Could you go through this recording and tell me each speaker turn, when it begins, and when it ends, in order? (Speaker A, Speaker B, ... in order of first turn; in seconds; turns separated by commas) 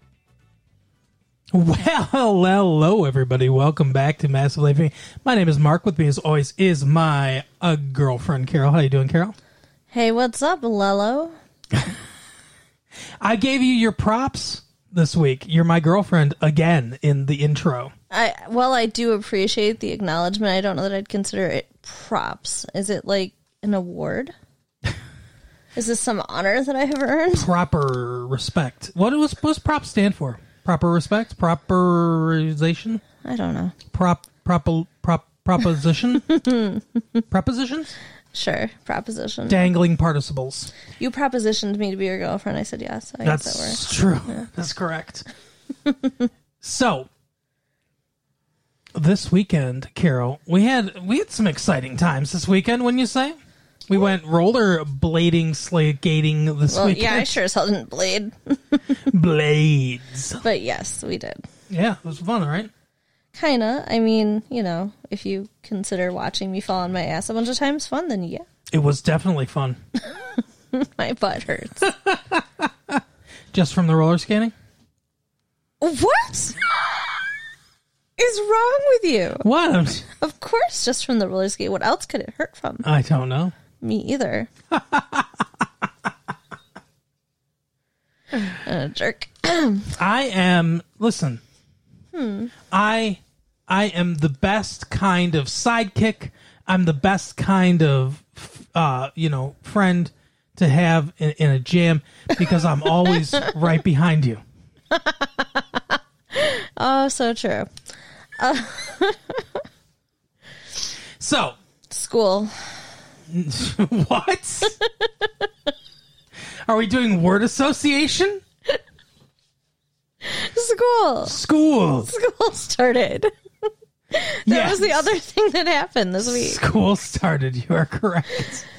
Speaker A: 1.5-9.3, Speaker B: 9.9-11.3, Speaker A: 13.2-17.9, Speaker B: 18.1-24.3, Speaker B: 25.7-27.5, Speaker A: 27.4-33.0, Speaker B: 33.2-33.7, Speaker A: 33.9-36.3, Speaker B: 36.2-37.2, Speaker A: 37.3-37.9, Speaker B: 38.3-39.7, Speaker A: 39.5-40.7, Speaker B: 40.9-44.4, Speaker A: 43.2-45.2, Speaker A: 46.6-47.1, Speaker A: 48.9-53.4, Speaker A: 53.9-57.4, Speaker B: 56.7-59.0, Speaker A: 59.0-60.4, Speaker B: 60.4-61.4, Speaker A: 61.7-62.7, Speaker B: 63.3-68.5, Speaker A: 68.7-69.8, Speaker B: 70.0-71.9, Speaker A: 71.8-73.0, Speaker A: 73.5-74.5, Speaker B: 75.8-76.6, Speaker B: 78.2-79.4, Speaker A: 79.4-80.1, Speaker B: 80.2-82.8, Speaker A: 82.8-83.5, Speaker B: 83.8-84.5, Speaker A: 84.7-85.4, Speaker B: 88.5-89.9, Speaker A: 89.9-91.4, Speaker B: 92.1-92.5, Speaker A: 92.7-104.4, Speaker B: 104.9-107.7, Speaker B: 108.4-109.6, Speaker A: 111.2-111.5, Speaker B: 111.9-112.8, Speaker A: 113.3-114.8, Speaker B: 114.8-115.5, Speaker A: 116.7-118.4, Speaker B: 120.2-121.4, Speaker A: 121.3-122.1, Speaker B: 122.0-123.3, Speaker B: 124.1-126.6, Speaker A: 124.5-125.0, Speaker A: 126.2-128.6